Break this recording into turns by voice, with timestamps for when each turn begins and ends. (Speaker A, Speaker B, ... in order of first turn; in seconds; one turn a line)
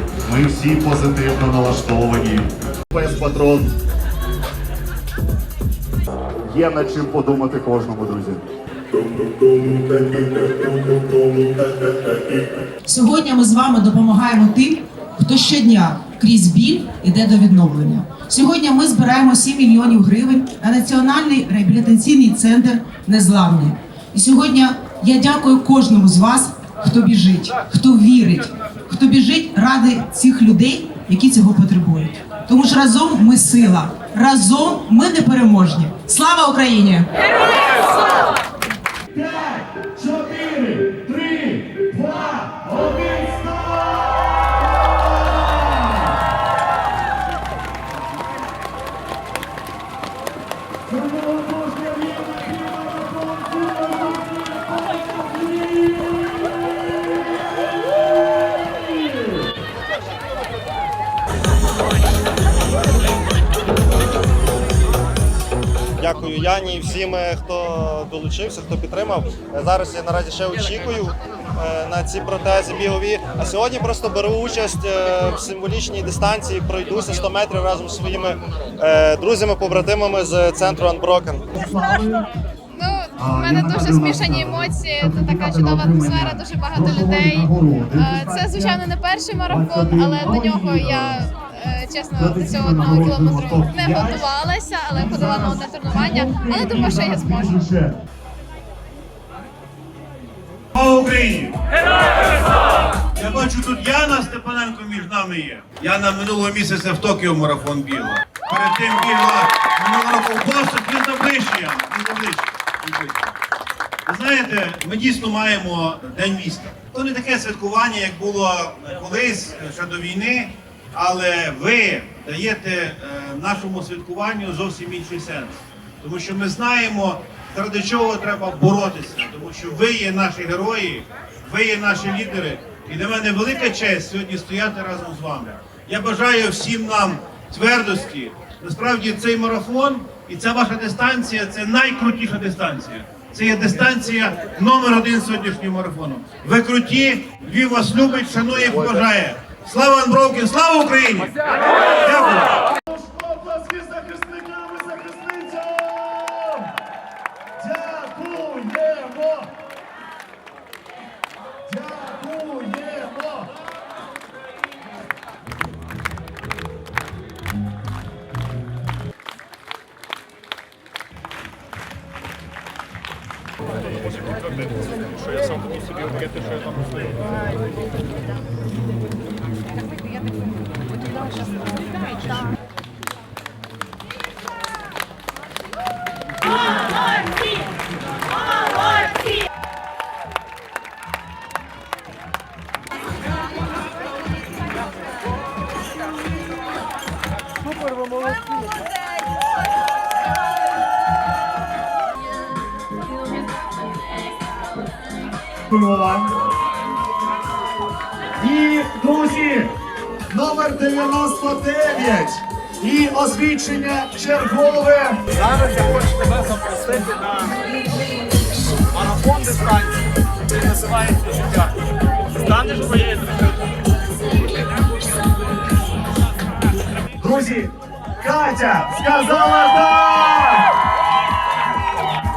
Speaker A: 0.2-3.7
Speaker A: 6.4-8.4
Speaker B: 12.8-37.1
Speaker A: 39.2-44.0
Speaker A: 50.9-54.4
Speaker C: 66.0-81.5
Speaker A: 81.6-82.2
Speaker D: 82.7-97.6
Speaker A: 83.2-88.8
Speaker A: 89.5-91.3
Speaker A: 92.2-94.2
Speaker A: 95.0-97.8
Speaker E: 100.7-101.6
Speaker E: 103.1-113.3
Speaker E: 114.0-152.7
Speaker A: 152.9-156.4
Speaker A: 157.6-159.3
Speaker A: 161.8-162.3
Speaker A: 205.7-206.2
Speaker A: 208.4-209.7
Speaker A: 210.3-215.1
Speaker F: 215.3-217.6
Speaker F: 218.9-220.0
Speaker F: 220.5-221.7
Speaker F: 222.4-223.5
Speaker A: 227.2-227.7
Speaker A: 228.2-230.2